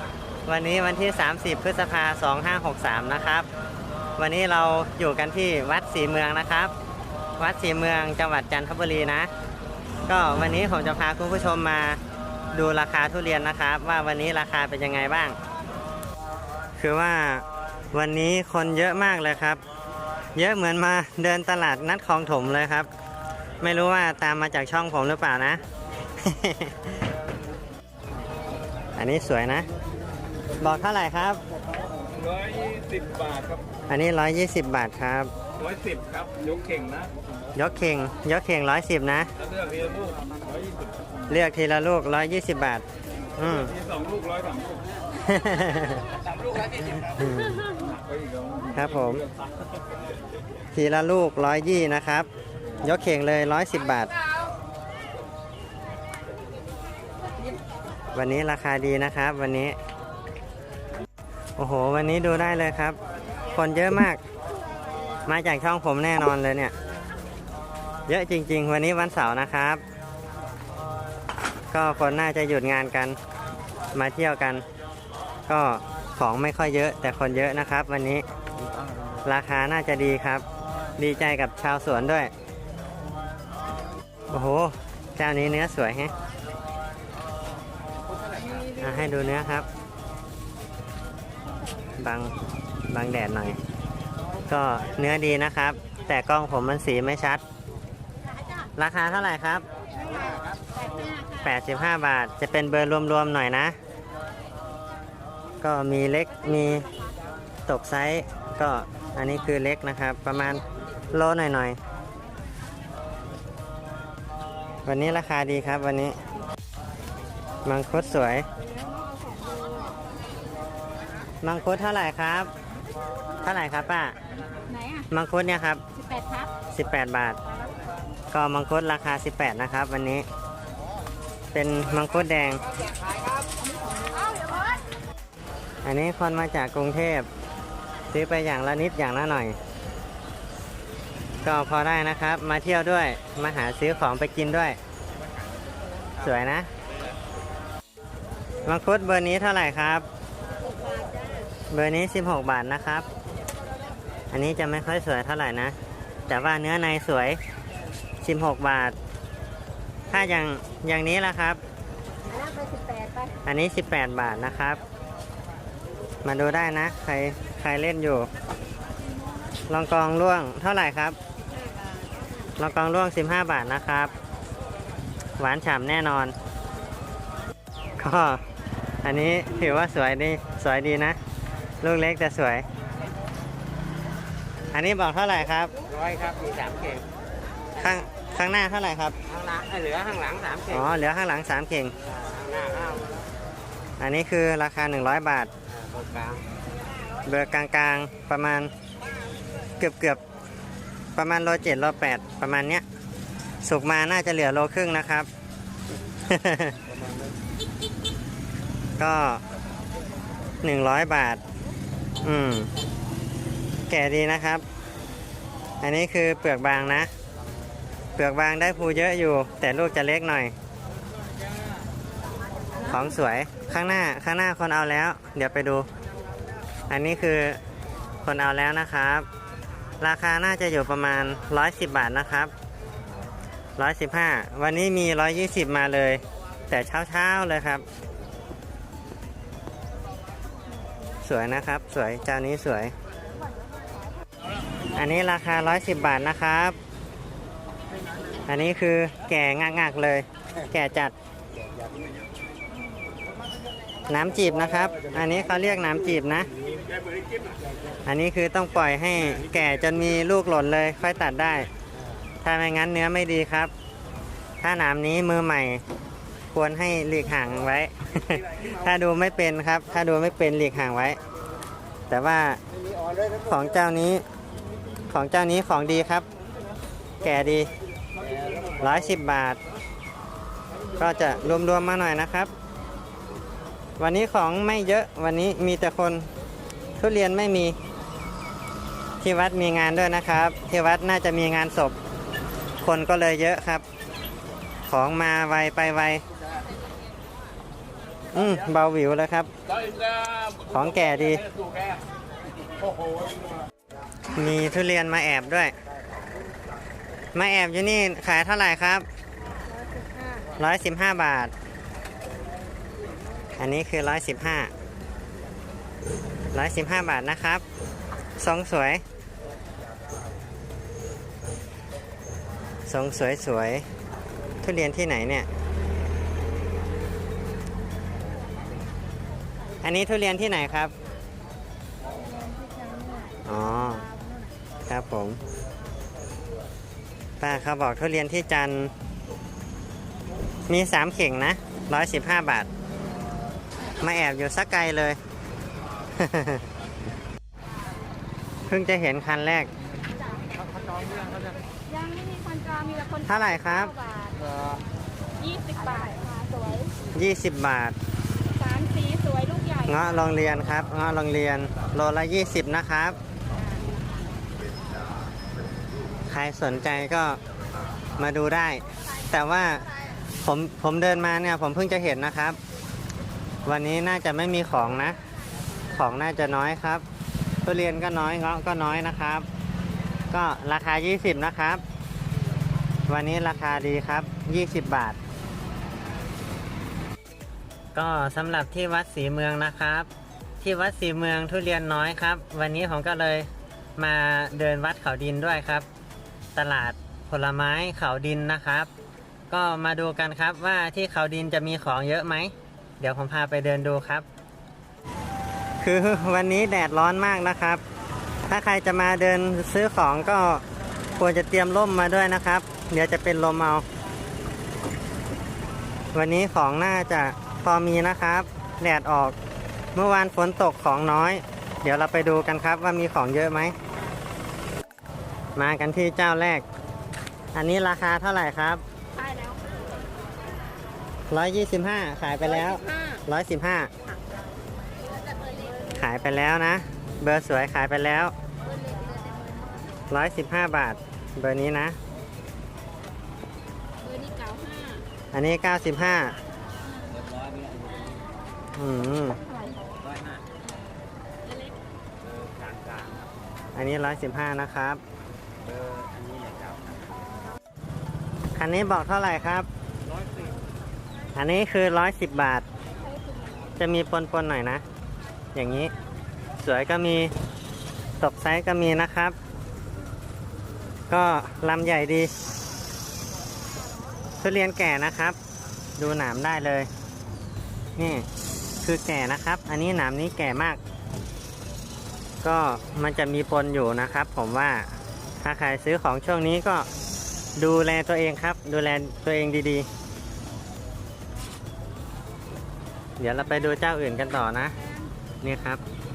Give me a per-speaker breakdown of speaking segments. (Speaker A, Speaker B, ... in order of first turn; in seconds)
Speaker A: 0.5-3.5, 4.2-6.7, 7.4-9.3, 10.1-12.0, 12.5-15.4, 16.8-19.6, 20.3-22.9, 23.6-25.6, 26.2-26.9, 29.0-29.7, 30.6-31.4, 33.9-35.3, 37.5-39.3, 41.3-42.8, 43.4-43.8, 45.2-46.0, 47.0-47.6, 48.7-49.2, 50.7-52.3, 52.8-54.1, 58.1-59.8, 61.6-63.0, 63.5-64.2, 65.2-66.7, 68.1-69.8, 71.7-73.2, 73.9-74.6, 75.5-78.2, 79.2-80.4, 81.0-82.3, 84.3-86.1, 88.8-89.7, 92.0-92.3, 92.9-93.6, 94.5-97.4, 98.8-99.6, 101.4-103.8, 105.6-106.9, 107.7-111.8, 114.8-116.2, 117.6-118.5, 121.4-122.5, 123.4-124.2, 125.1-125.8, 126.7-127.4, 128.3-130.2, 131.5-132.6, 135.8-137.3, 138.1-139.6, 141.4-144.8, 146.2-146.7, 148.6-150.1, 151.7-153.1, 154.3-155.7, 156.3-157.4, 158.2-158.9, 160.1-161.6, 163.4-164.8, 166.2-168.3, 169.7-171.2, 172.6-174.1, 175.4-176.3, 178.0-178.4, 179.0-181.2, 181.8-182.6, 184.7-185.7, 187.8-189.2, 190.7-191.9, 194.0-195.5, 197.2-198.7, 199.8-200.2, 201.1-202.8, 203.6-205.3, 206.3-206.8, 209.0-209.4, 210.6-211.4, 212.2-212.7, 213.9-214.6, 215.8-217.1, 218.2-220.5, 222.8-225.9, 226.9-227.6, 228.2-229.3, 230.0-232.5, 233.8-237.8, 241.2-242.9, 244.9-246.8, 248.5-251.1, 254.1-256.5, 258.1-261.7, 262.4-263.7, 264.6-265.8, 266.5-271.2, 272.1-272.6, 273.5-274.2, 275.1-276.2, 277.2-277.7, 278.8-279.6, 281.0-282.5, 284.0-286.3, 287.0-287.8, 289.2-291.9, 292.8-293.8, 294.9-296.2, 298.3-299.5, 300.6-301.4, 304.3-305.7, 307.3-309.0, 310.6-311.5, 313.6-314.7, 316.5-317.6, 318.4-319.0, 322.9-323.8, 324.6-325.5, 329.8-330.9, 333.4-334.1, 334.9-335.4, 337.4-338.9, 340.7-342.7, 344.0-345.2, 346.2-346.6, 348.7-349.7, 353.2-353.9, 357.1-357.9, 359.8-363.2, 366.3-367.4, 368.2-369.9, 370.4-372.6, 373.6-375.2, 375.9-377.0, 377.6-379.4, 380.3-381.8, 383.1-385.2, 387.9-390.1, 390.6-395.9, 396.5-398.9, 399.5-404.2, 405.8-407.8, 408.5-410.6, 411.2-413.8, 416.1-419.4, 419.9-423.7, 425.6-426.6, 427.5-428.8, 431.3-433.9, 435.9-438.3, 440.1-442.0, 445.3-446.4, 448.8-449.4, 453.7-455.0, 458.6-459.7, 461.3-462.6, 463.8-464.8, 465.5-465.9, 466.6-467.3, 468.2-469.4, 471.1-472.3, 474.4-475.4, 476.0-476.9, 478.0-478.2, 478.8-480.8, 482.4-484.9, 485.4-486.9, 487.6-489.9, 493.2-494.7, 495.4-495.8
Speaker B: 32.3-33.4, 35.8-37.0, 44.1-44.5, 162.8-163.0, 185.9-187.1, 189.3-190.7, 192.4-193.0, 195.8-196.4, 447.1-448.0, 450.1-450.4, 452.4-453.2, 455.7-456.8
Speaker C: 118.5-120.0, 124.7-125.1, 125.9-126.5, 133.9-134.3, 162.6-163.1, 332.6-333.1, 351.9-353.2, 353.9-354.4, 355.4-356.9, 358.5-359.8, 429.2-429.6, 444.0-445.0, 451.4-451.7